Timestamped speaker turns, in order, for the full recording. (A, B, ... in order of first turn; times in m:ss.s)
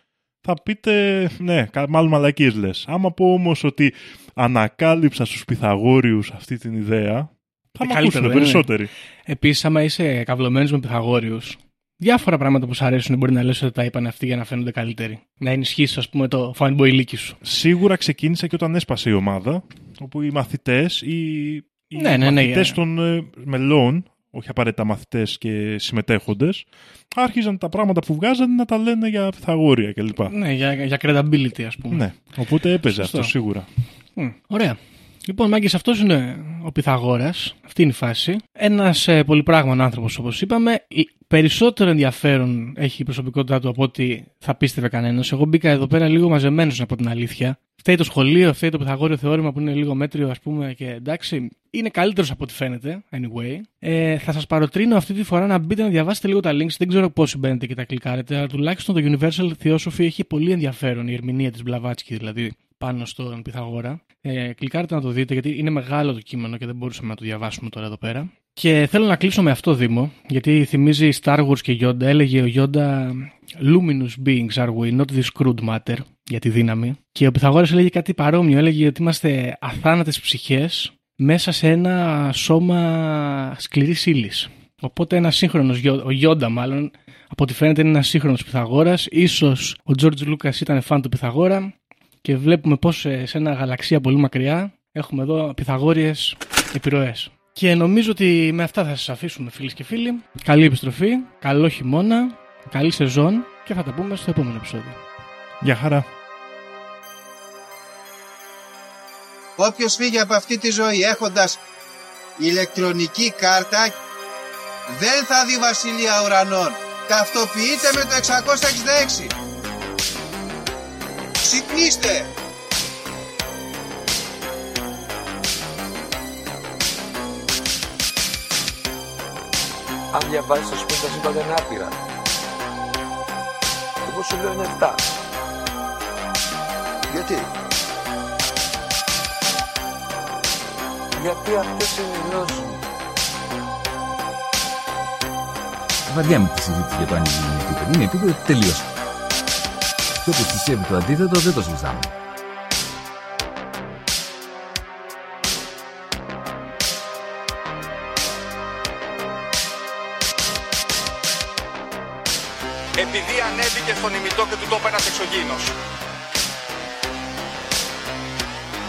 0:00.4-0:08.9 A
0:07.8-0:08.7 B
0:09.3-0:17.4 B
0:17.4-0:30.4 A
0:22.0-0:22.8 B
0:30.3-0:32.0 B
0:31.9-0:33.7 A
0:32.9-0:33.3 B
0:34.2-1:31.7 B
1:32.2-1:45.0 B
1:45.6-1:46.1 A
1:49.6-1:51.6 C
1:52.4-1:54.0 C
1:54.9-1:59.3 C
2:01.4-2:02.3 C
2:10.1-2:12.0 D
2:14.0-2:15.0 D
2:17.1-2:17.5 E
2:21.2-2:22.8 D
2:26.1-2:28.9 E
2:30.2-2:32.1 E
2:43.0-2:45.8 F